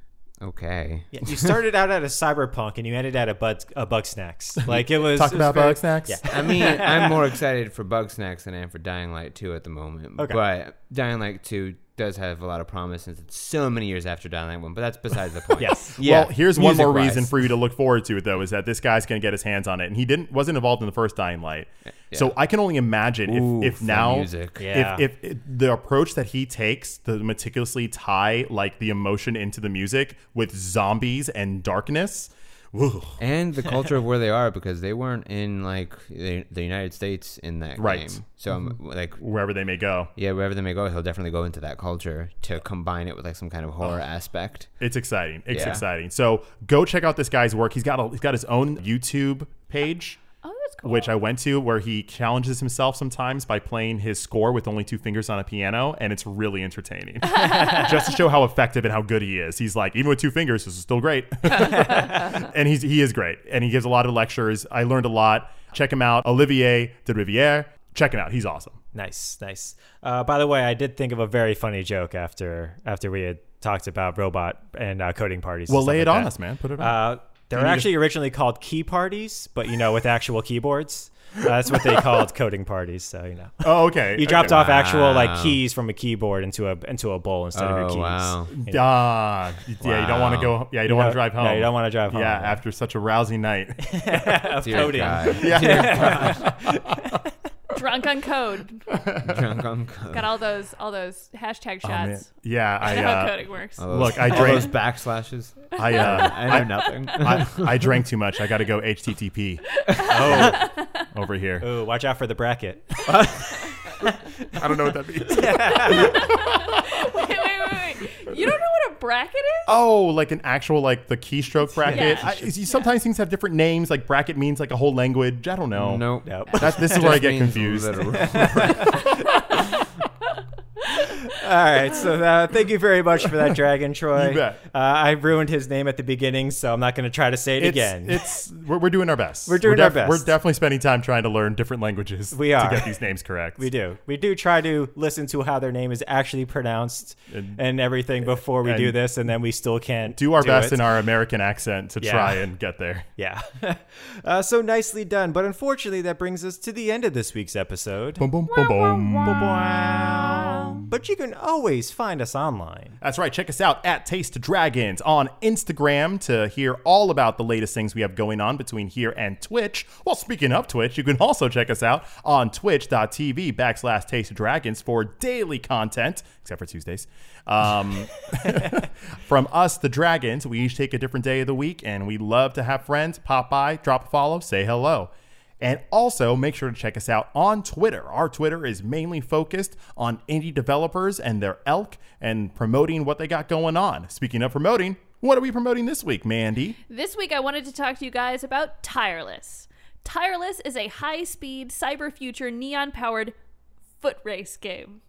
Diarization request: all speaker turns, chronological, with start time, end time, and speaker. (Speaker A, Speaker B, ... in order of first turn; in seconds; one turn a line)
Speaker A: 0.4-1.5
Speaker B: 1.1-7.1
Speaker C: 4.6-6.5
Speaker A: 6.3-17.2
Speaker B: 15.6-16.0
Speaker C: 16.0-33.2
Speaker A: 23.2-24.6
Speaker B: 24.6-25.0
Speaker A: 33.2-39.2
Speaker C: 37.8-38.2
Speaker C: 39.2-40.1
Speaker A: 40.1-44.7
Speaker C: 44.8-50.2
Speaker A: 45.5-45.8
Speaker D: 50.4-51.2
Speaker C: 50.8-68.8
Speaker D: 57.3-57.9
Speaker B: 68.9-88.8
Speaker C: 75.7-77.9
Speaker C: 83.6-84.6
Speaker A: 84.4-85.6
Speaker A: 87.5-88.6
Speaker C: 88.5-96.5
Speaker A: 89.8-90.6
Speaker B: 90.8-92.6
Speaker B: 93.8-97.3
Speaker A: 94.6-96.5
Speaker D: 97.7-98.9
Speaker C: 98.9-99.5
Speaker A: 99.2-100.2
Speaker D: 100.1-104.6
Speaker C: 101.8-104.8
Speaker A: 103.8-107.9
Speaker C: 105.8-111.7
Speaker D: 109.8-110.9
Speaker B: 110.0-110.6
Speaker B: 111.6-114.2
Speaker A: 113.1-113.4
Speaker C: 114.5-116.8
Speaker B: 115.2-116.3
Speaker D: 116.0-119.7
Speaker C: 119.7-129.1
Speaker B: 121.6-122.5
Speaker D: 121.9-122.3
Speaker A: 125.7-129.1
Speaker B: 126.2-127.2
Speaker B: 128.2-129.0
Speaker B: 130.9-138.2
Speaker C: 134.1-134.6
Speaker C: 137.6-143.6
Speaker B: 139.5-140.3
Speaker B: 142.3-142.9
Speaker B: 143.6-150.8
Speaker C: 147.3-147.6
Speaker C: 148.6-149.0
Speaker C: 150.1-153.1
Speaker B: 152.0-152.5
Speaker B: 153.2-158.3
Speaker C: 158.2-160.8
Speaker B: 159.2-163.0
Speaker C: 163.0-196.8
Speaker D: 196.9-203.3
Speaker D: 204.0-205.0